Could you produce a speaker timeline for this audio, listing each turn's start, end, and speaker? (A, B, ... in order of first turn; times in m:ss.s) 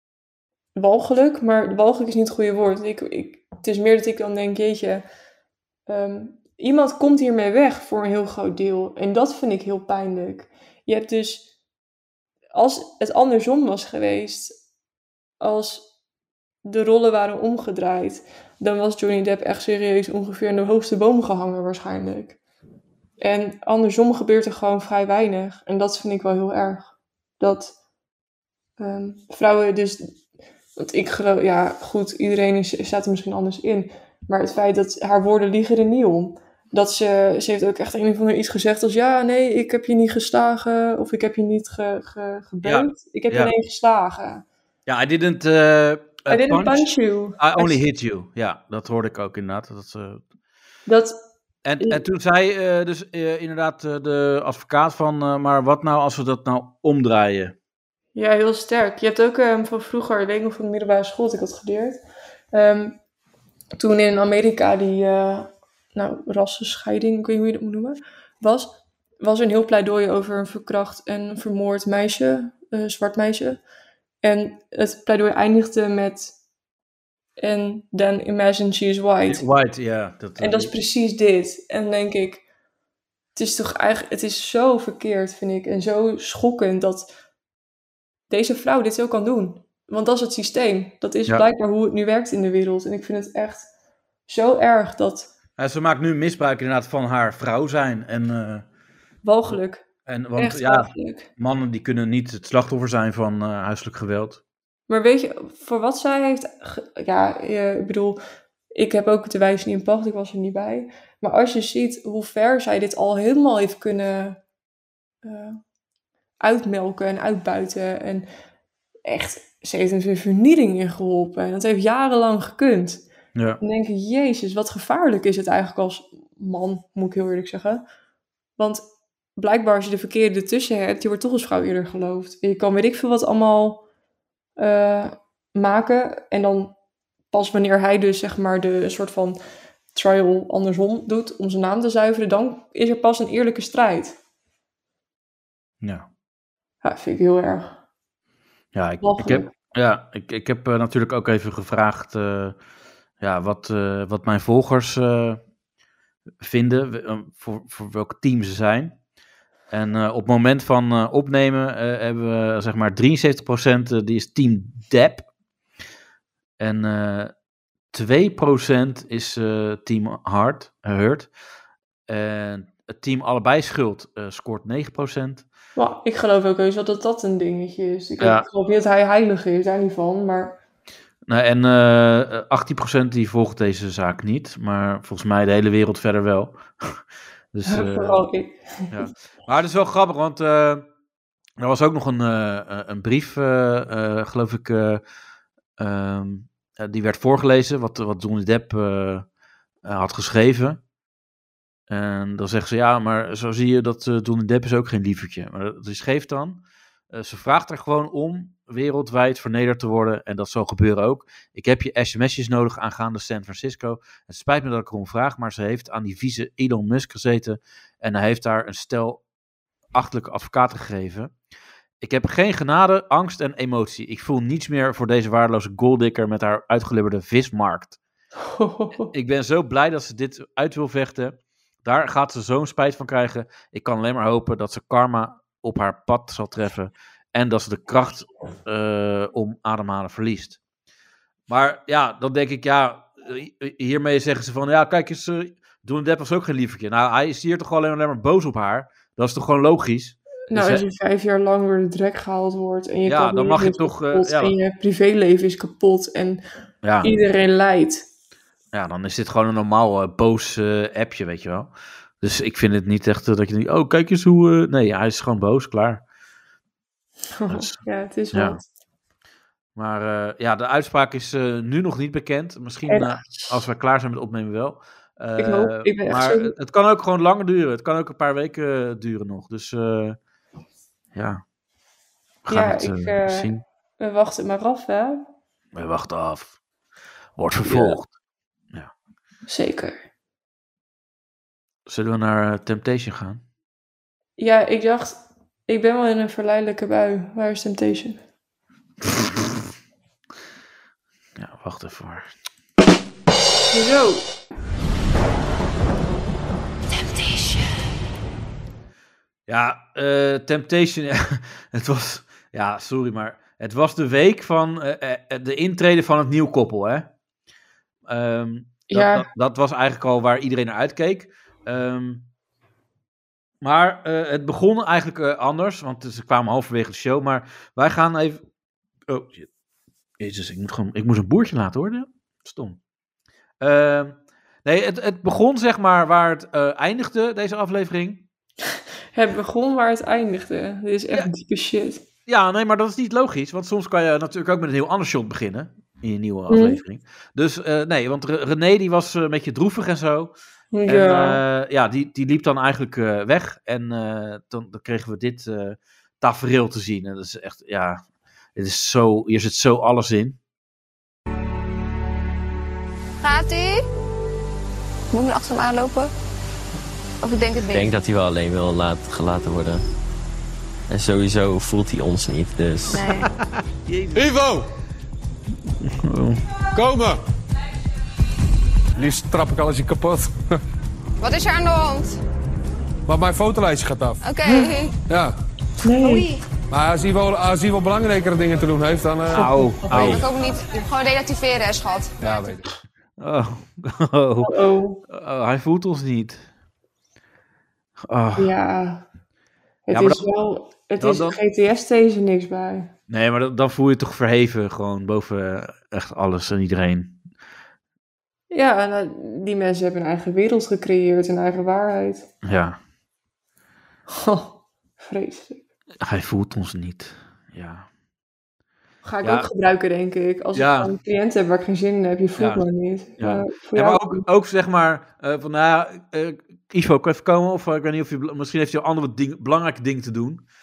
0:00.8-0:05.0 A
0:05.9-0:11.5 A
0:12.5-0:14.6 A
0:15.4-0:15.9 A
0:16.6-0:22.4 A
0:23.2-0:26.9 A
0:27.4-0:27.7 A
0:28.8-0:30.2 A
0:30.8-0:44.4 A
0:42.6-0:43.5 B
0:44.9-0:46.9 B
0:46.3-0:47.8 A
0:47.4-0:50.2 B
0:50.9-0:51.2 A
0:51.6-0:57.6 B
0:58.2-1:02.0 A
1:02.5-1:03.0 A
1:03.8-1:13.6 A
1:14.2-1:16.4 A
1:17.4-1:19.4 A
1:19.3-1:20.7 B
1:20.4-1:22.4 A
1:23.4-1:27.1 A
1:28.3-1:33.7 A
1:34.3-1:35.3 A
1:35.6-1:38.6 B
1:39.2-1:41.3 A
1:40.1-1:44.4 B
1:44.9-1:48.2 A
1:48.7-1:54.4 A
1:55.2-1:55.6 A
1:56.4-1:58.3 A
1:59.1-2:03.0 A
2:03.6-2:07.8 A
2:08.6-2:08.8 A
2:09.4-2:13.8 A
2:14.6-2:16.7 A
2:17.3-2:19.4 A
2:19.9-2:24.2 A
2:26.8-2:27.8 A
2:28.7-2:32.6 B
2:29.0-2:29.5 A
2:33.2-2:35.4 B
2:36.4-2:39.0 B
2:39.7-2:45.3 B
2:46.6-2:47.3 B
2:47.9-2:51.3 B
2:52.1-2:55.5 B
2:55.8-3:00.6 A
2:58.2-2:58.5 B
3:01.3-3:07.0 B
3:07.5-3:08.2 B
3:07.7-3:09.0 A
3:08.9-3:10.8 B
3:11.6-3:15.0 B
3:15.8-3:19.3 B
3:19.8-3:20.8 B
3:21.9-3:39.2 B
3:39.9-3:41.3 B
3:42.0-3:48.0 B
3:48.4-3:49.1 A
3:49.1-4:00.6 B
4:01.5-4:10.8 B
4:10.5-4:16.4 A
4:13.1-4:14.5 B
4:16.8-4:17.1 B
4:17.0-4:18.0 A
4:18.7-4:26.0 B
4:27.4-4:28.6 A
4:27.5-4:27.8 B
4:28.3-4:28.6 B
4:29.8-4:40.2 B
4:32.9-4:33.6 A
4:35.4-4:36.5 A
4:41.2-4:41.4 B
4:42.5-4:43.6 B
4:42.5-4:45.2 A
4:45.8-4:46.6 B
4:47.4-4:48.1 B
4:47.6-4:48.0 A
4:49.5-4:50.0 A
4:51.9-4:53.4 B
4:54.4-4:58.2 A
4:59.0-4:59.5 B
5:01.4-5:02.3 B
5:03.7-5:04.2 A
5:09.5-5:17.1 B
5:18.1-5:22.3 B
5:18.9-5:19.3 A
5:23.6-5:28.4 B
5:29.1-5:29.5 B
5:30.2-5:32.8 B
5:33.6-5:38.2 B
5:39.1-5:42.0 A
5:42.3-5:50.3 B
5:46.5-5:46.8 A
5:50.7-5:51.4 A
5:50.9-5:58.0 B
5:58.6-6:00.4 B
6:03.2-6:03.8 C
6:05.1-6:06.1 C
6:07.2-6:07.9 C
6:07.7-6:09.8 D
6:10.9-6:13.1 D
6:12.9-6:13.3 C
6:13.8-6:14.3 B
6:14.2-6:14.7 E
6:15.8-6:16.4 B
6:16.7-6:17.2 E
6:19.0-6:20.4 E
6:21.2-6:22.2 C
6:23.1-6:24.2 E
6:24.2-6:25.0 C
6:25.1-6:25.4 E
6:25.8-6:26.3 A
6:26.0-6:26.4 C
6:26.7-6:30.2 E
6:29.3-6:30.2 B
6:29.3-6:30.2 A
6:30.0-6:32.2 C
6:32.2-6:32.6 E
6:33.2-6:34.5 B
6:34.4-6:35.0 A
6:35.1-6:36.4 B
6:38.1-6:38.5 B
6:38.4-6:39.0 A
6:39.9-6:42.9 A
6:39.9-6:40.2 B
6:41.0-6:41.4 B
6:43.1-6:47.2 B
6:48.5-6:52.3 A
6:52.4-6:52.8 B
6:54.1-6:55.6 A
6:56.0-6:57.9 B
6:59.0-7:04.2 A
6:59.2-6:59.5 B
7:00.6-7:00.9 B
7:02.4-7:02.6 B
7:03.2-7:10.4 B